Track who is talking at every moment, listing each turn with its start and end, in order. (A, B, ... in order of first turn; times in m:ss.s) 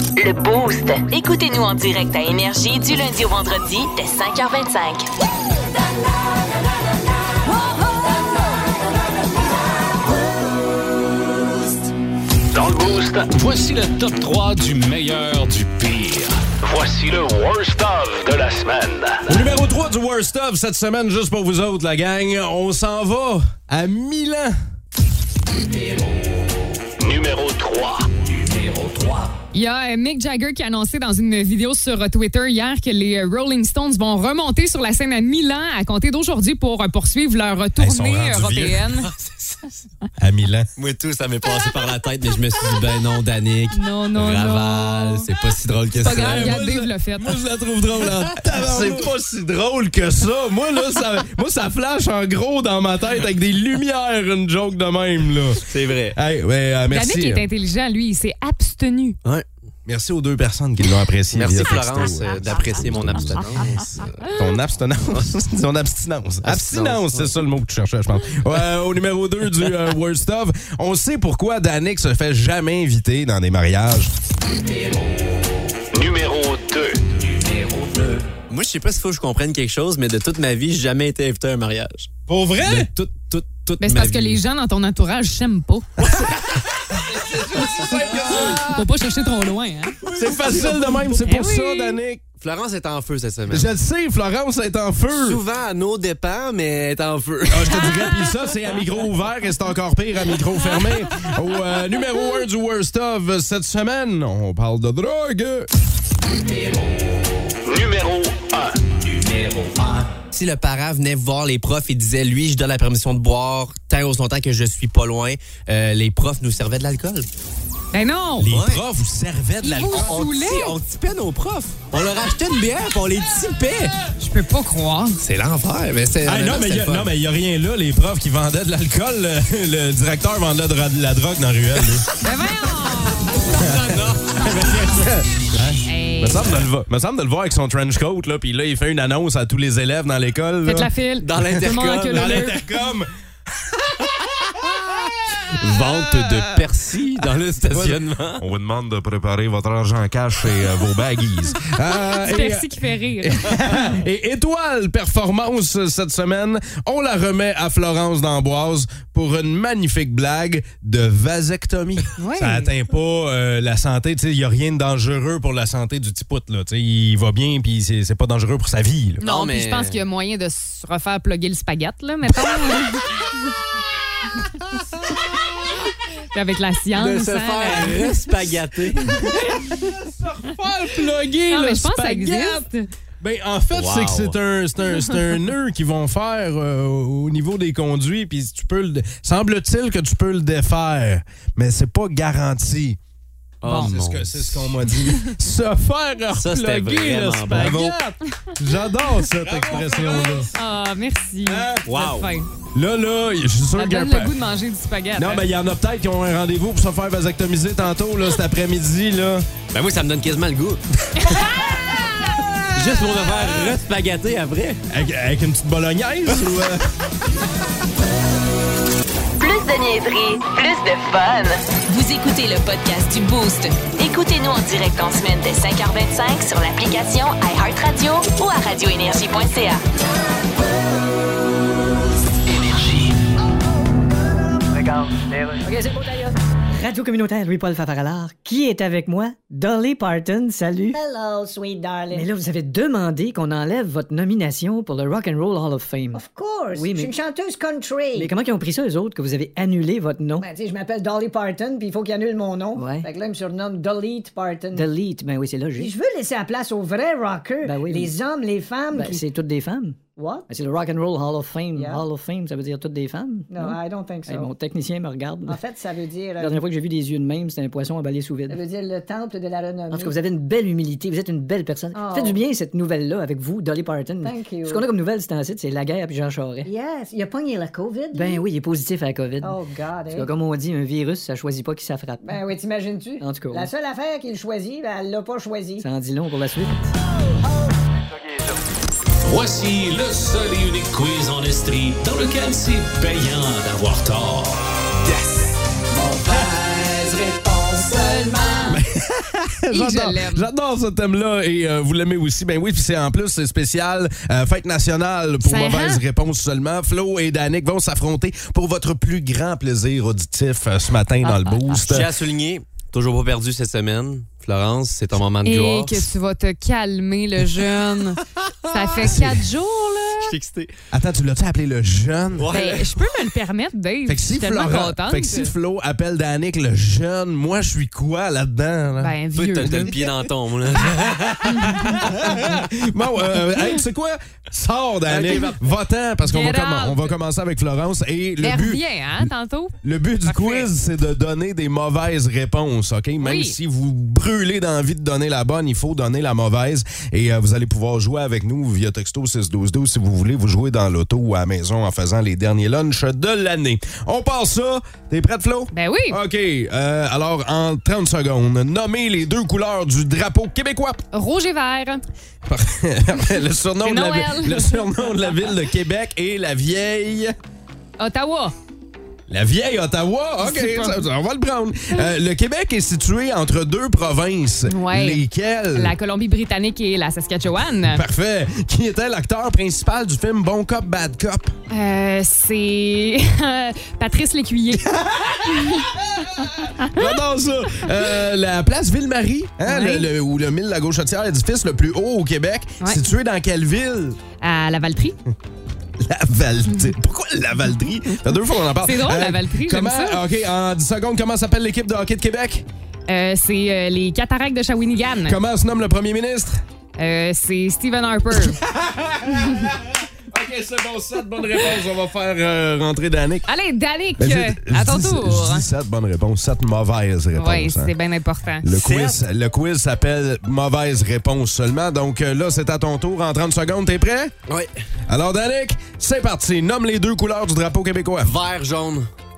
0:00.2-0:05.0 A
0:12.5-0:13.3 B
0:13.3-0:16.3 C
0:16.6-0:19.4 B
0:19.3-0:24.5 D
0:27.0-0:28.1 B
0:29.5-0:39.1 E
0:37.8-0:38.8 D
0:39.1-0:39.8 F
0:40.2-0:40.7 D
0:40.8-0:46.6 F
0:43.7-0:45.3 E
0:46.0-0:47.4 E
0:46.0-0:57.4 D
0:48.0-0:49.1 F
0:55.6-0:56.2 F
0:56.9-0:59.2 E
0:59.9-1:03.7 D
1:01.3-1:04.3 F
1:04.2-1:04.5 E
1:04.3-1:14.1 D
1:06.4-1:07.4 F
1:15.9-1:17.0 B
1:18.3-1:22.1 F
1:22.3-1:22.9 D
1:22.6-1:24.4 F
1:23.8-1:25.9 E
1:26.0-1:26.3 F
1:26.8-1:28.9 D
1:27.8-1:28.4 F
1:28.5-1:30.1 E
1:30.0-1:32.2 D
1:30.1-1:31.1 F
1:31.2-1:32.0 E
1:32.4-1:33.7 F
1:33.5-1:35.4 D
1:35.1-1:37.9 F
1:37.5-1:45.7 D
1:47.6-1:48.8 B
1:50.2-1:57.3 F
1:57.9-1:58.5 E
1:58.4-2:00.1 D
1:58.5-1:58.8 F
1:59.6-2:00.8 E
1:59.9-2:03.9 F
2:04.2-2:05.2 E
2:05.2-2:07.1 F
2:06.2-2:12.1 D
2:12.2-2:13.4 E
2:13.4-2:14.8 F
2:13.5-2:20.9 D
2:15.8-2:16.6 E
2:20.6-2:22.6 E
2:21.2-2:22.5 F
2:22.1-2:23.1 D
2:25.5-2:28.4 F
2:25.8-2:26.4 D
2:27.7-2:49.2 D
2:32.1-2:33.6 E
2:42.2-2:42.7 E
2:49.2-2:53.3 E
2:49.2-2:50.0 F
2:56.3-2:58.4 E
2:56.9-2:59.2 F
2:59.0-2:59.8 E
2:59.7-3:02.6 D
3:01.3-3:02.9 E
3:03.2-3:13.0 D
3:03.7-3:04.4 F
3:13.6-3:14.9 F
3:13.6-3:13.9 E
3:13.7-3:20.5 D
3:16.3-3:18.0 F
3:19.4-3:20.3 F
3:19.6-3:22.5 E
3:21.5-3:21.9 D
3:21.8-3:22.3 F
3:22.7-3:24.3 D
3:23.8-3:25.4 E
3:25.2-3:29.5 D
3:29.7-3:30.8 F
3:31.2-3:31.6 E
3:32.7-3:34.8 F
3:34.9-3:36.8 D
3:39.4-3:49.8 A
3:55.6-4:01.0 G
4:00.9-4:02.3 H
4:02.1-4:06.2 G
4:06.1-4:08.3 H
4:06.7-4:07.1 G
4:08.1-4:10.5 G
4:10.4-4:14.9 H
4:12.7-4:13.1 G
4:14.7-4:15.9 G
4:15.8-4:19.3 H
4:17.6-4:18.1 G
4:18.9-4:25.6 G
4:20.2-4:20.5 H
4:21.7-4:22.0 H
4:23.5-4:24.5 H
4:25.5-4:26.6 H
4:26.4-4:28.6 G
4:28.5-4:30.2 H
4:29.9-4:36.7 G
4:31.9-4:32.4 H
4:34.2-4:34.8 H
4:36.6-4:38.4 H
4:38.1-4:39.6 G
4:39.4-4:40.3 H
4:40.1-4:42.4 G
4:42.2-4:45.9 H
4:43.2-4:43.7 G
4:45.8-4:46.9 G
4:49.2-4:54.6 C
4:56.4-4:57.7 F
4:57.7-4:58.8 E
4:58.7-5:12.1 D
4:59.7-5:00.5 E
5:05.4-5:06.0 E
5:11.2-5:12.0 E
5:11.9-5:16.1 F
5:15.4-5:20.3 E
5:18.4-5:19.2 F
5:20.2-5:20.7 F
5:20.9-5:22.5 D
5:22.4-5:23.0 F
5:22.5-5:25.5 E
5:24.1-5:29.2 D
5:29.0-5:30.0 E
5:29.3-5:32.0 F
5:31.6-5:32.0 E
5:31.7-5:39.2 D
5:35.1-5:35.6 F
5:36.2-5:37.1 E
5:38.4-5:40.7 E
5:39.8-6:01.0 D
5:43.2-5:43.6 E
5:55.7-5:56.2 E
6:01.1-6:02.0 E
6:02.4-6:07.4 D
6:03.8-6:05.0 E
6:08.0-6:08.5 E
6:09.3-6:15.9 D
6:10.4-6:11.0 E
6:14.7-6:15.2 E
6:15.7-6:18.0 E
6:17.9-6:21.5 D
6:21.7-6:24.8 E
6:24.9-6:34.2 D
6:25.6-6:25.9 E
6:29.6-6:30.1 E
6:34.4-6:35.2 E
6:36.0-6:42.6 D
6:36.7-6:36.9 E
6:38.8-6:40.2 E
6:43.1-6:45.4 E
6:45.2-6:46.6 D
6:47.0-6:48.6 E
6:48.4-6:53.4 D
6:53.5-6:55.6 E
6:54.2-6:57.9 D
6:57.3-6:58.6 E
6:58.6-7:04.3 D
6:58.7-6:59.2 F
7:04.5-7:04.7 F
7:05.1-7:08.3 D
7:08.2-7:09.1 F